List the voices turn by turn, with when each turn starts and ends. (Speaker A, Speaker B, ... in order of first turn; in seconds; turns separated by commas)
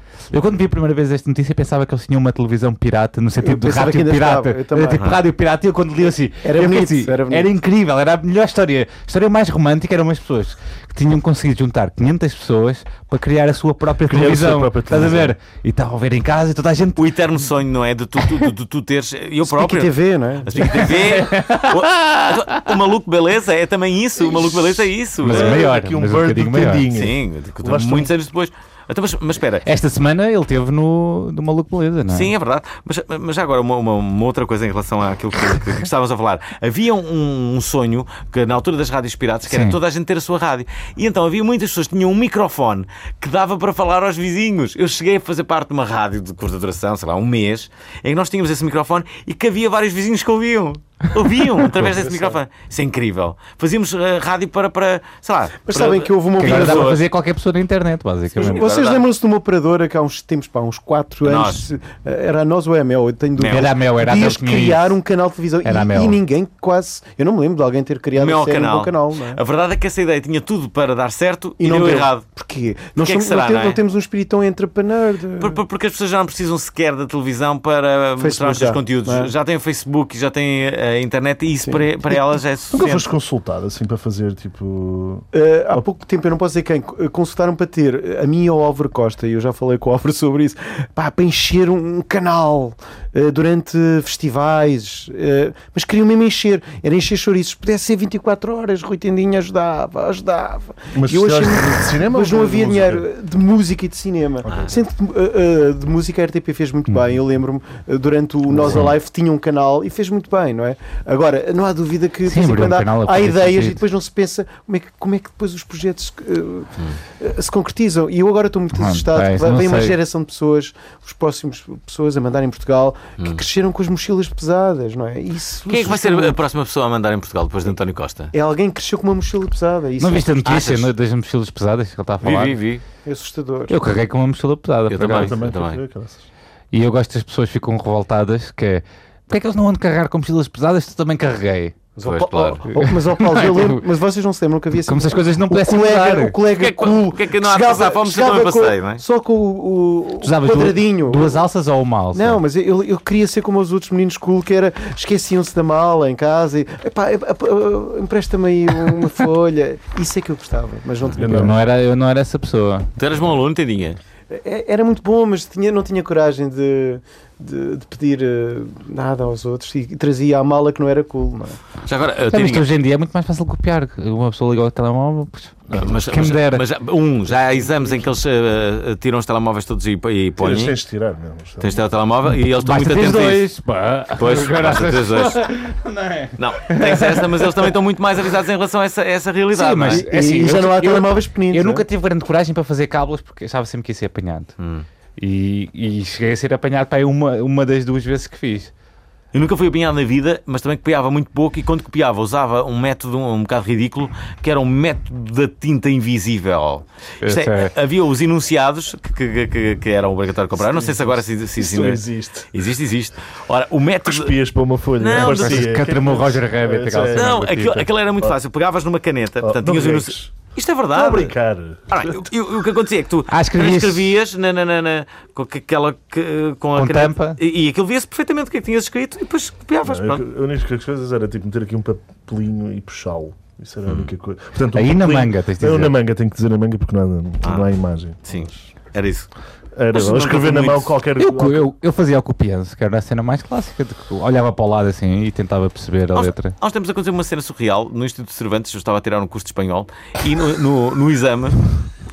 Speaker A: 0.3-17.0, Speaker B: 3.4-5.1, Speaker C: 5.0-5.2, Speaker B: 6.4-7.5, Speaker D: 14.0-15.3, Speaker C: 17.0-19.9, Speaker B: 19.4-20.9, Speaker C: 20.4-25.6, Speaker A: 20.7-22.7, Speaker D: 24.3-28.1, Speaker A: 25.2-26.9, Speaker C: 26.9-29.6, Speaker A: 29.6-32.3, Speaker C: 32.1-57.0, Speaker A: 39.5-39.8, Speaker B: 51.9-52.4, Speaker B: 55.6-57.0, Speaker A: 56.4-58.6, Speaker B: 58.3-69.4, Speaker C: 58.4-59.0, Speaker C: 61.2-61.6, Speaker C: 63.4-63.7, Speaker A: 63.4-64.9, Speaker A: 65.6-66.2, Speaker C: 68.2-72.2, Speaker B: 71.6-75.6, Speaker C: 73.0-73.8, Speaker C: 75.4-83.1, Speaker B: 78.2-79.3, Speaker D: 82.7-85.2, Speaker B: 85.3-126.4, Speaker D: 100.9-103.1, Speaker D: 104.5-104.7, Speaker A: 108.7-108.9, Speaker A: 112.2-113.8, Speaker A: 118.7-119.9, Speaker C: 125.7-128.3, Speaker B: 128.3-130.3, Speaker A: 130.0-132.6, Speaker C: 130.4-130.9, Speaker C: 132.2-132.8, Speaker B: 133.0-133.8, Speaker A: 133.7-135.3, Speaker C: 134.9-135.8, Speaker D: 135.1-136.2, Speaker A: 136.7-141.8, Speaker B: 141.9-151.4, Speaker C: 142.0-142.6, Speaker A: 142.7-143.8, Speaker A: 144.8-146.3, Speaker C: 146.6-149.0, Speaker A: 150.2-152.4, Speaker B: 152.1-161.5, Speaker D: 161.2-161.6, Speaker A: 161.3-162.9, Speaker C: 163.0-164.0, Speaker B: 164.3-171.6, Speaker C: 171.8-172.7, Speaker A: 172.3-176.6, Speaker D: 175.7-175.9, Speaker C: 175.8-180.7, Speaker D: 177.6-178.1, Speaker D: 180.4-181.8, Speaker C: 181.6-183.5, Speaker A: 182.6-187.7, Speaker C: 184.2-185.4, Speaker C: 186.4-190.0, Speaker A: 189.5-194.5, Speaker B: 189.9-191.8, Speaker C: 194.6-194.8, Speaker A: 195.2-198.7, Speaker C: 199.3-214.4, Speaker A: 207.2-207.7, Speaker D: 210.5-212.5, Speaker D: 214.0-218.3, Speaker C: 215.0-215.8, Speaker A: 215.2-217.7, Speaker C: 217.1-221.3, Speaker D: 219.4-220.3, Speaker D: 220.9-222.3, Speaker C: 221.9-230.2, Speaker A: 223.3-224.1, Speaker A: 226.8-227.4, Speaker D: 229.8-238.6, Speaker A: 234.7-235.9, Speaker C: 237.4-237.7, Speaker C: 238.2-239.3, Speaker D: 239.7-241.6, Speaker C: 239.9-240.9, Speaker A: 241.2-246.5, Speaker C: 246.1-251.7